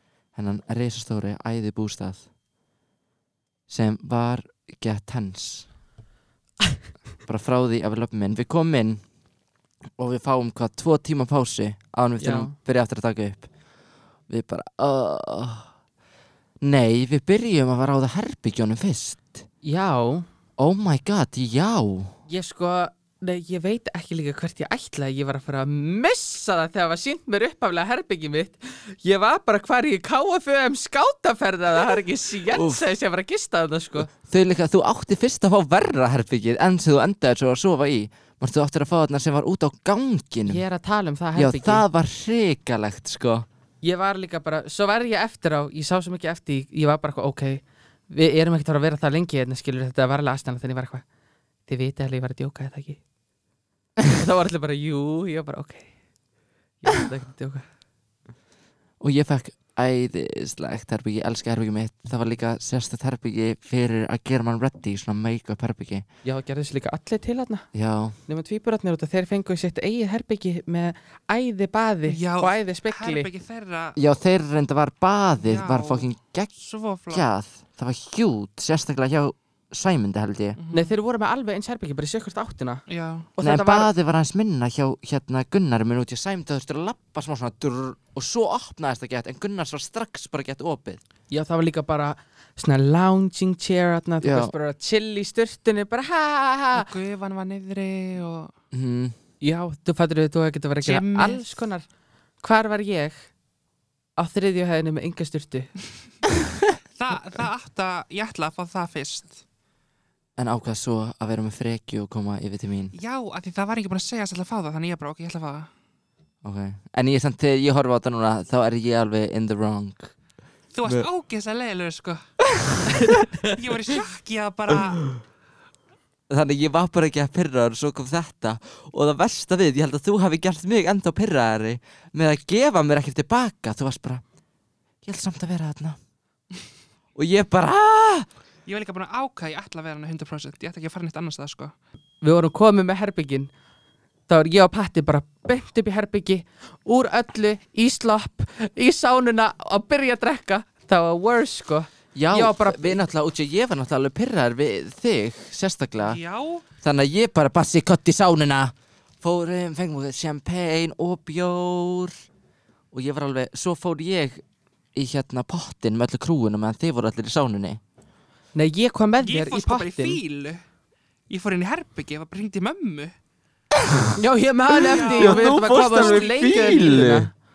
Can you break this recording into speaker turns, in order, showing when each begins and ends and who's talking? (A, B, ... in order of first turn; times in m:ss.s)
0:00.3-0:02.3 A
0:03.7-0:05.7 A
0:07.3-0:09.0 A
0:10.0-0:13.5 A
0:12.2-0:12.5 B
0:14.3-0:15.7 A
0:16.6-0:19.4 A
0:19.6-0:20.3 B
0:20.6-0:22.2 A
0:22.3-0:34.1 B
0:32.5-0:32.8 A
0:34.1-0:40.6 A
0:40.4-0:41.8 B
0:41.3-0:43.4 A
0:43.8-0:51.0 B
0:51.7-0:53.0 B
0:54.0-0:55.9 B
0:56.8-0:57.6 B
0:59.0-1:06.0 A
1:06.2-1:07.7 B
1:07.7-1:08.2 A
1:08.3-1:13.3 B
1:12.1-1:14.0 C
1:14.0-1:16.5 A
1:15.4-1:17.2 C
1:17.1-1:20.6 A
1:20.6-1:20.9 C
1:20.7-1:22.8 B
1:22.9-1:23.3 C
1:23.4-1:23.9 B
1:23.4-1:31.0 A
1:31.3-1:36.9 B
1:34.2-1:34.5 A
1:36.7-1:38.5 C
1:38.7-1:39.2 A
1:39.4-1:41.9 B
1:40.8-1:41.6 C
1:42.4-1:43.3 B
1:44.2-1:45.7 B
1:46.9-1:49.4 C
1:50.4-1:52.9 A
1:52.9-1:55.7 C
1:56.4-2:00.1 A
2:00.7-2:02.2 C
2:02.6-2:03.2 A
2:02.9-2:03.4 B
2:03.4-2:05.2 C
2:06.3-2:14.2 A
2:15.0-2:16.0 A
2:17.2-2:18.3 A
2:18.6-2:21.7 C
2:22.2-2:23.5 B
2:24.3-2:33.0 B
2:32.1-2:36.2 A
2:36.0-2:36.6 C
2:36.8-2:42.1 A
2:42.9-2:44.4 A
2:44.9-2:47.8 A
2:48.5-2:50.2 B
2:49.2-2:50.6 C
2:51.3-2:53.1 C
2:54.1-2:57.3 B
2:54.8-2:57.3 A
2:54.8-2:57.1 C